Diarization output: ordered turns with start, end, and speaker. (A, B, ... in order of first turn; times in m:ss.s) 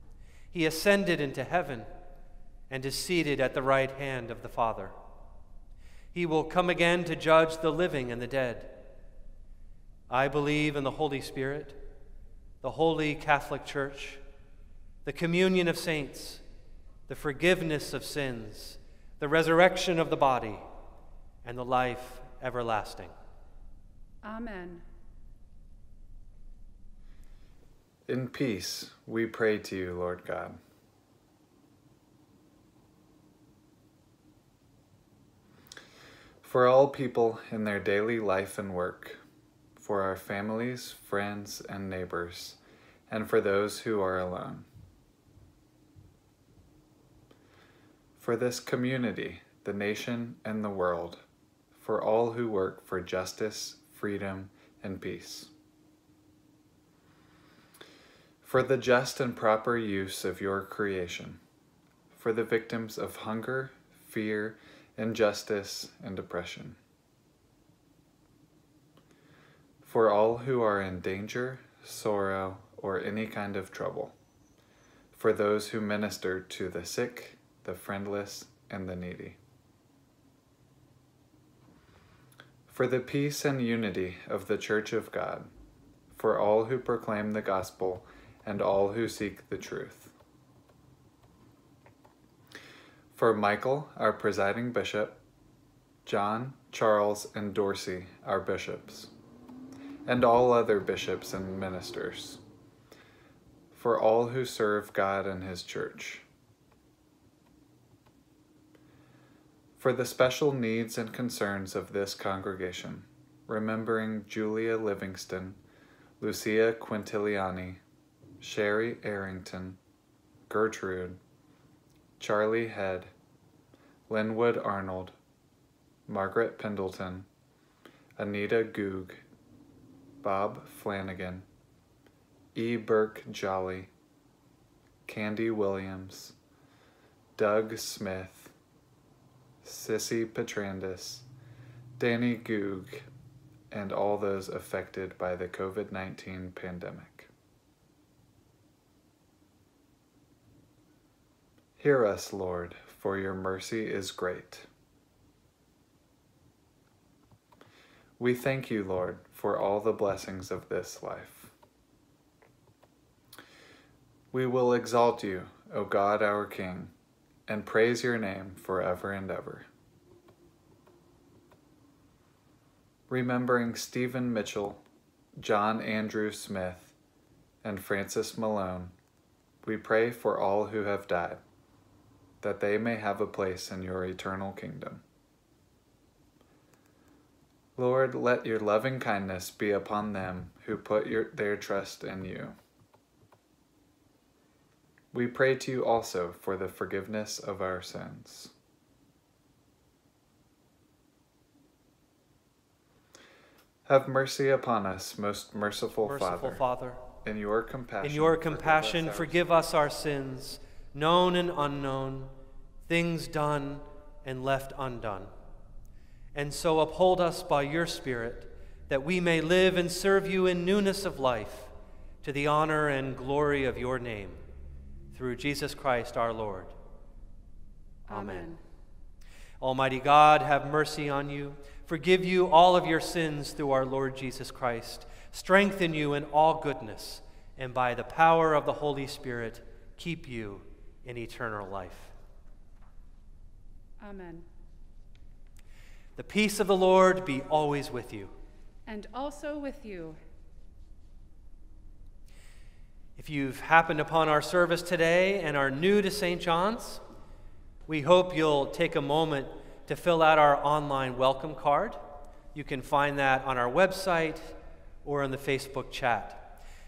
0:00.5-0:01.9 A
0:02.7-0:04.9 A
0:06.1-0:08.7 A
0:10.1-0:11.8 A
0:12.6-0:14.2 A
0:15.0-0:16.4 A
0:17.1-0:20.6 A
0:21.4-0:23.1 A
0:24.2-0:24.8 B
0:28.1-0:30.6 C
0:36.4-0:39.2 C
0:39.8-0:44.7 C
0:48.2-0:51.2 C
0:51.8-0:55.5 C
0:58.4-1:01.4 C
1:02.1-1:06.8 C
1:09.8-1:14.1 C
1:15.1-1:19.4 C
1:22.7-1:25.5 C
1:26.1-1:30.1 C
1:33.1-1:35.2 C
1:36.0-1:39.1 C
1:40.0-1:42.4 C
1:43.7-1:46.2 C
1:49.8-1:55.6 C
1:56.2-1:57.8 C
1:58.4-1:59.8 C
2:00.5-2:01.2 C
2:02.2-2:03.1 C
2:04.1-2:05.1 C
2:06.1-2:07.2 C
2:08.2-2:09.2 C
2:10.2-2:11.4 C
2:12.5-2:13.9 C
2:15.0-2:16.3 C
2:17.4-2:18.5 C
2:19.6-2:21.2 C
2:22.0-2:23.1 C
2:23.7-2:27.3 C
2:31.8-2:34.7 C
2:38.2-2:41.5 C
2:44.3-2:46.9 C
2:47.5-2:49.6 C
2:53.1-2:54.8 C
2:55.4-2:56.9 C
2:57.6-2:58.9 C
2:59.6-3:01.4 C
3:02.4-3:05.0 C
3:07.8-3:12.6 C
3:15.1-3:18.5 C
3:23.8-3:26.6 C
3:26.0-3:27.0 A
3:27.2-3:29.4 C
3:28.0-3:32.3 A
3:32.8-3:35.3 A
3:36.3-3:44.4 A
3:45.1-3:46.7 A
3:48.1-3:48.6 B
3:48.1-3:48.5 A
3:49.6-4:02.1 A
4:04.0-4:04.4 B
4:06.2-4:08.3 A
4:08.9-4:10.2 B
4:13.2-4:17.0 A
4:17.9-4:22.0 A
4:22.5-4:26.4 A